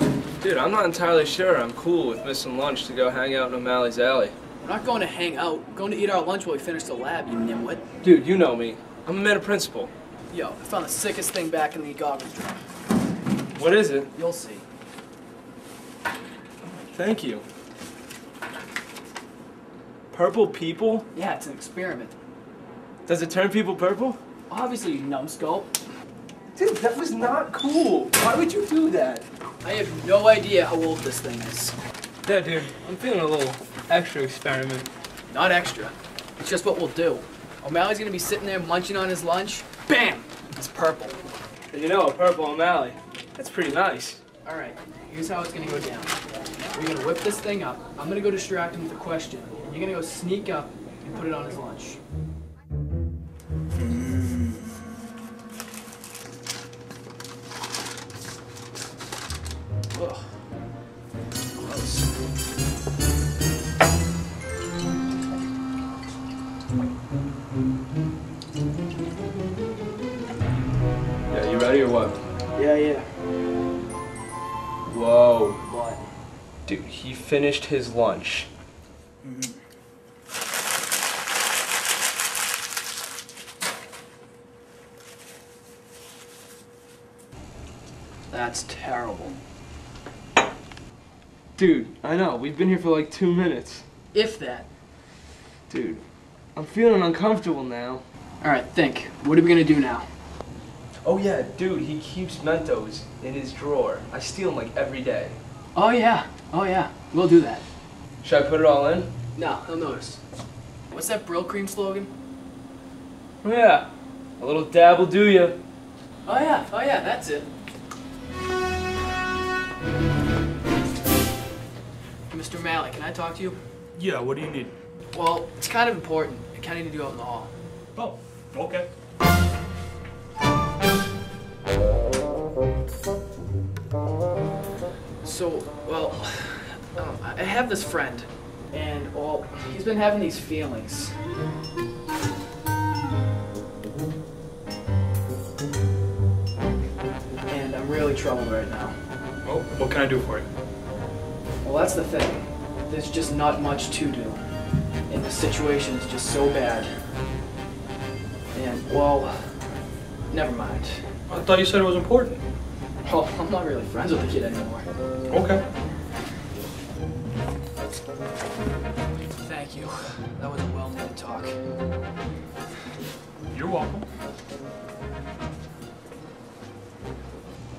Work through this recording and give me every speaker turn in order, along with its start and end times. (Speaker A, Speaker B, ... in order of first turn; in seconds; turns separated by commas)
Speaker A: 0.4-4.3, Speaker B: 4.6-7.8, Speaker A: 8.0-9.9, Speaker B: 10.3-12.6, Speaker A: 13.6-14.1, Speaker B: 14.1-14.6, Speaker A: 16.8-17.4, Speaker A: 20.1-21.1, Speaker B: 21.1-22.1, Speaker A: 23.1-24.2, Speaker B: 24.5-25.8, Speaker A: 26.6-29.2, Speaker B: 29.6-31.8, Speaker A: 32.2-34.9, Speaker B: 35.3-41.2, Speaker A: 41.7-44.2, Speaker B: 44.4-46.2, Speaker B: 46.7-52.0, Speaker B: 59.9-60.3, Speaker B: 61.5-62.1, Speaker A: 71.3-72.2, Speaker B: 72.6-73.0, Speaker A: 74.9-75.6, Speaker B: 75.7-76.0, Speaker A: 76.7-78.5, Speaker B: 79.2-79.5, Speaker B: 88.3-89.4, Speaker A: 91.6-93.8, Speaker B: 94.1-94.7, Speaker A: 95.7-96.0, Speaker A: 96.6-98.0, Speaker B: 98.4-100.1, Speaker A: 101.0-105.4, Speaker B: 105.7-107.6, Speaker A: 108.2-109.1, Speaker B: 109.4-110.2, Speaker B: 110.9-112.1, Speaker A: 113.4-115.6, Speaker B: 116.2-117.5, Speaker B: 122.3-123.6, Speaker C: 124.0-124.7, Speaker B: 125.1-127.5, Speaker C: 128.0-128.9, Speaker B: 135.2-141.2, Speaker B: 147.5-148.9, Speaker C: 149.4-150.4, Speaker B: 151.6-154.4, Speaker B: 155.1-156.9, Speaker B: 158.5-159.5, Speaker B: 160.3-161.1, Speaker C: 161.3-162.4, Speaker B: 163.0-164.9, Speaker C: 165.3-165.6, Speaker B: 169.4-171.6, Speaker C: 173.5-174.1